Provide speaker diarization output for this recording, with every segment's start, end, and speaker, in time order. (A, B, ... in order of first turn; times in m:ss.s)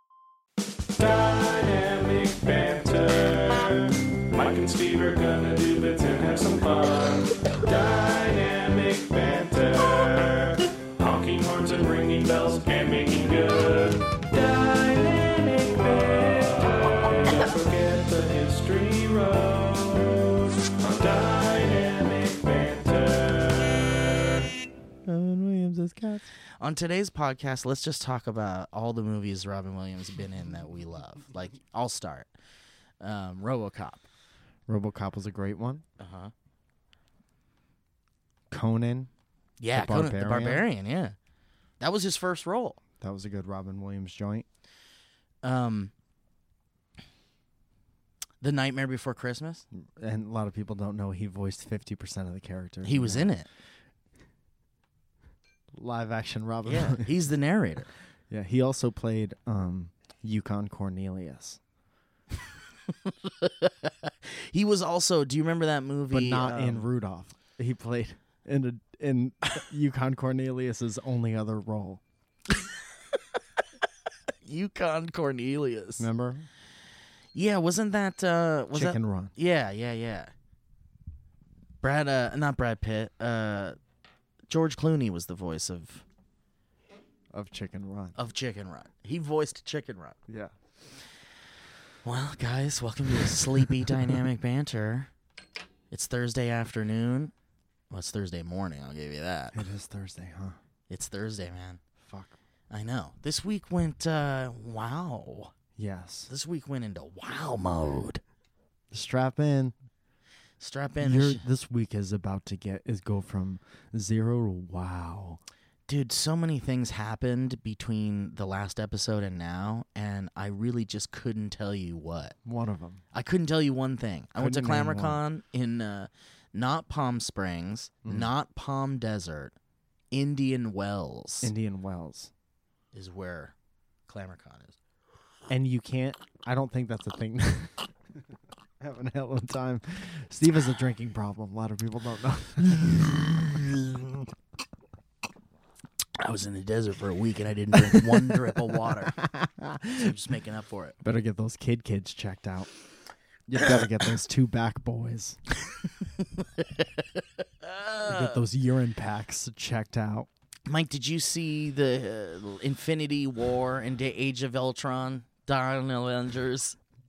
0:01.0-0:24.4 A
0:25.1-0:32.3 B
0:33.0-0:34.0 B
0:34.7-0:35.8 C
0:36.0-0:36.3 B
0:38.5-0:39.1 C
0:39.6-0:41.2 B
0:39.7-0:40.6 C
0:41.8-0:42.8 B
0:43.0-0:44.4 C
0:45.4-0:45.9 B
0:48.4-0:49.6 B
0:49.8-0:53.3 C
0:52.8-0:53.5 B
0:55.8-0:57.1 C
0:56.6-0:57.9 B
0:58.3-1:01.6 C
1:03.1-1:06.9 B
1:06.1-1:12.0 C
1:14.4-1:16.1 B
1:16.0-1:16.4 C
1:17.3-1:20.3 B
1:18.7-1:19.3 C
1:21.8-1:23.8 B
1:24.5-1:26.0 B
1:27.3-1:28.2 C
1:28.2-1:30.2 B
1:32.0-1:35.1 B
1:35.9-1:37.3 B
1:37.9-1:39.6 B
1:39.5-1:40.6 C
1:40.9-1:41.8 B
1:42.0-1:42.3 C
1:42.7-1:45.5 B
1:45.8-1:46.3 C
1:46.3-1:48.2 B
1:48.9-1:49.7 C
1:50.6-1:51.4 B
1:51.0-1:55.4 C
1:55.9-2:02.4 B
2:02.4-2:03.0 C
2:03.1-2:09.5 B
2:04.4-2:05.2 C
2:10.1-2:11.5 B
2:11.4-2:12.3 C
2:12.9-2:13.5 B
2:14.1-2:14.8 B
2:15.5-2:17.9 C
2:18.8-2:23.3 C
2:26.2-2:29.2 B
2:27.7-2:30.1 C
2:29.9-2:31.0 B
2:31.0-2:32.7 C
2:33.5-2:35.4 C
2:36.2-2:38.4 B
2:38.0-2:40.3 C
2:40.7-2:46.8 B